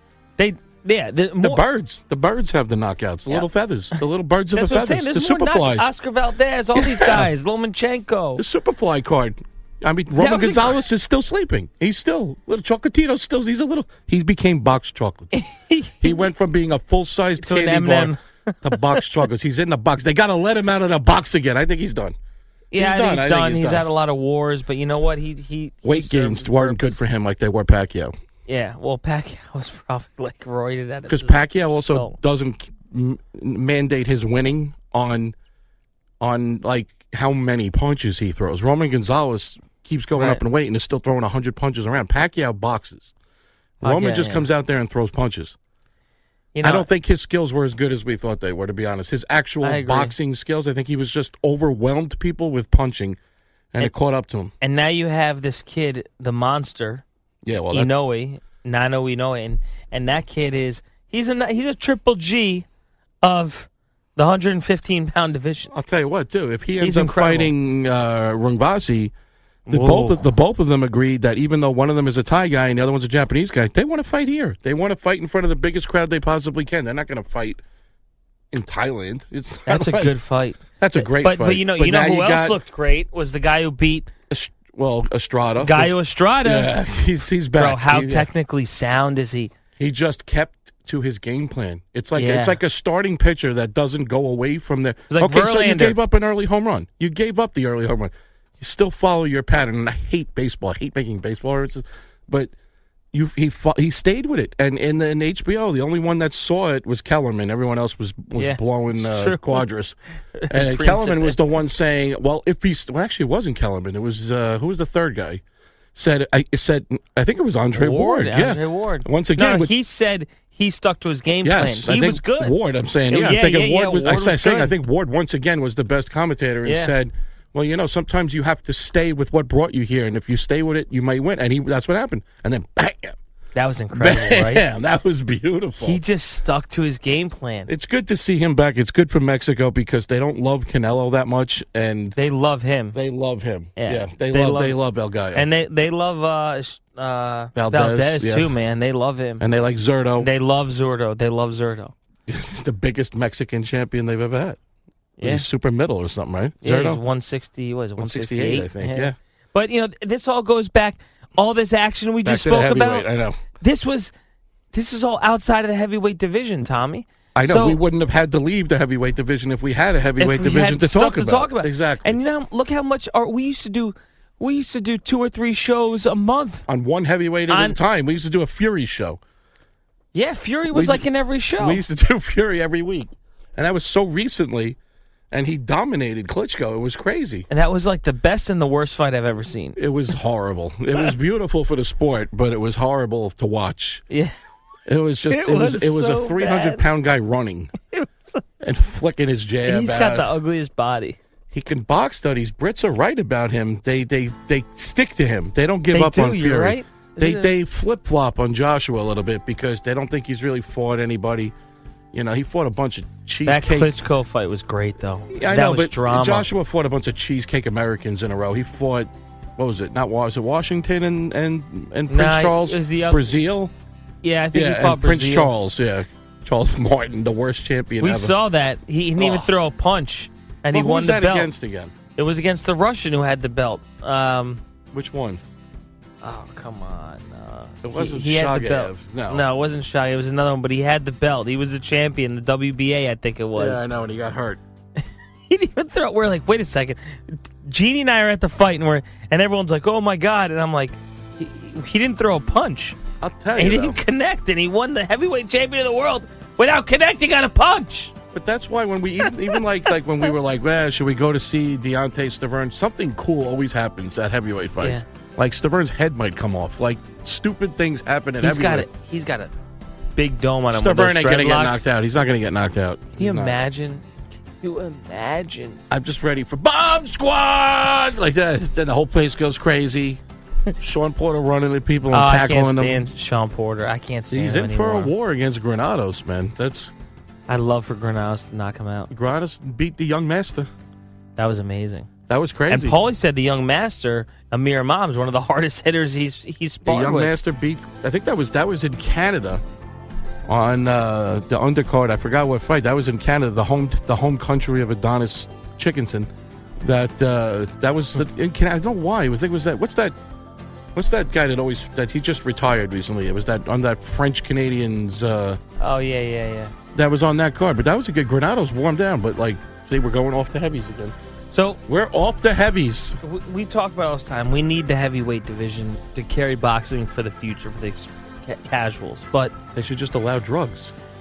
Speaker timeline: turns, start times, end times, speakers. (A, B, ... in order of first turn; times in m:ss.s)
0:00.4-0:01.6 A
0:01.4-0:05.9 B
0:04.5-0:08.4 A
0:06.7-0:07.3 B
0:08.4-0:15.3 B
0:10.2-0:10.8 A
0:15.3-0:16.3 A
0:16.0-0:22.2 B
0:17.4-0:19.0 A
0:22.7-0:27.0 A
0:22.7-0:23.9 B
0:25.8-0:28.1 B
0:28.5-0:32.2 A
0:31.1-0:35.3 B
0:36.2-0:43.1 B
0:40.1-0:40.4 A
0:43.8-0:45.6 B
0:43.8-0:44.5 A
0:46.5-0:46.9 A
0:46.6-0:53.2 B
0:49.6-0:50.1 A
0:53.7-0:54.5 B
0:54.6-0:57.0 A
0:57.4-0:58.0 B
0:57.7-1:02.6 A
1:03.2-1:05.7 A
1:05.7-1:09.1 B
1:06.8-1:07.5 A
1:09.7-1:10.3 A
1:09.7-1:17.6 B
1:18.5-1:20.1 B
1:19.7-1:24.1 A
1:20.8-1:22.6 B
1:24.3-1:25.9 B
1:25.6-1:26.7 A
1:26.4-1:28.3 B
1:27.5-1:29.5 A
1:29.8-1:42.5 B
1:32.2-1:32.6 A
1:35.1-1:36.0 A
1:43.1-1:50.0 B
1:48.4-1:49.6 A
1:50.4-1:51.4 A
1:50.5-1:55.4 B
1:55.9-1:59.7 B
1:57.7-2:02.5 A
2:01.4-2:13.2 B
2:03.1-2:04.7 A
2:06.6-2:06.9 A
2:13.5-2:14.6 A
2:13.9-2:16.0 B
2:15.8-2:17.7 A
2:17.7-2:22.2 B
2:22.2-2:23.0 A
2:22.9-2:25.5 B
2:23.8-2:24.8 A
2:25.3-2:29.4 A
2:27.5-2:28.5 B
2:29.4-2:30.3 B
2:30.2-2:31.9 A
2:32.3-2:34.6 B
2:35.2-2:35.5 A
2:35.2-2:37.0 B
2:36.6-2:43.1 A
2:38.0-2:39.2 B
2:42.2-2:43.4 B
2:43.6-2:44.1 A
2:44.7-2:47.8 A
2:47.3-2:52.2 B
2:50.2-2:56.6 A
2:56.7-2:59.2 B
2:57.5-2:57.8 A
3:00.1-3:01.8 A
3:00.7-3:01.0 B
3:01.6-3:04.8 B
3:05.3-3:07.5 B
3:07.5-3:09.8 A
3:09.8-3:14.0 B
3:14.1-3:14.3 A
3:14.9-3:17.7 B
3:15.3-3:16.8 A
3:17.9-3:18.4 A
3:18.6-3:20.3 B
3:19.6-3:21.2 A
3:21.5-3:31.5 B
3:25.9-3:27.5 A
3:32.1-3:33.9 B
3:33.4-3:36.5 A
3:35.3-3:43.7 B
3:42.1-3:43.3 A
3:44.2-3:45.5 A
3:44.5-3:48.4 B
3:48.0-3:51.5 A
3:49.2-3:49.5 B
3:50.7-3:51.9 B
3:52.2-3:54.6 A
3:54.9-3:55.4 B
3:56.2-4:03.9 A
3:57.8-3:59.5 B
4:03.5-4:04.6 B
4:05.5-4:13.0 A
4:13.2-4:14.0 B
4:13.6-4:18.1 A
4:18.3-4:28.9 B
4:19.2-4:19.6 A
4:24.8-4:25.0 A
4:28.4-4:29.5 A
4:30.2-4:31.8 A
4:30.7-4:33.6 B
4:33.2-4:34.0 A
4:34.6-4:35.8 A
4:35.9-4:40.2 B
4:40.8-4:43.0 B
4:42.1-4:45.1 A
4:44.3-4:46.9 B
4:47.5-4:49.1 A
4:49.1-4:50.7 B
4:51.4-4:52.1 A
4:52.3-4:53.0 B
4:52.7-4:57.3 A
4:56.8-4:59.6 B
5:00.5-5:06.3 B
5:06.8-5:10.2 B
5:10.9-5:15.6 B
5:15.8-5:16.7 A
5:16.9-5:21.1 B
5:21.5-5:21.8 A
5:21.9-5:23.2 B
5:23.2-5:29.6 A
5:29.7-5:30.9 B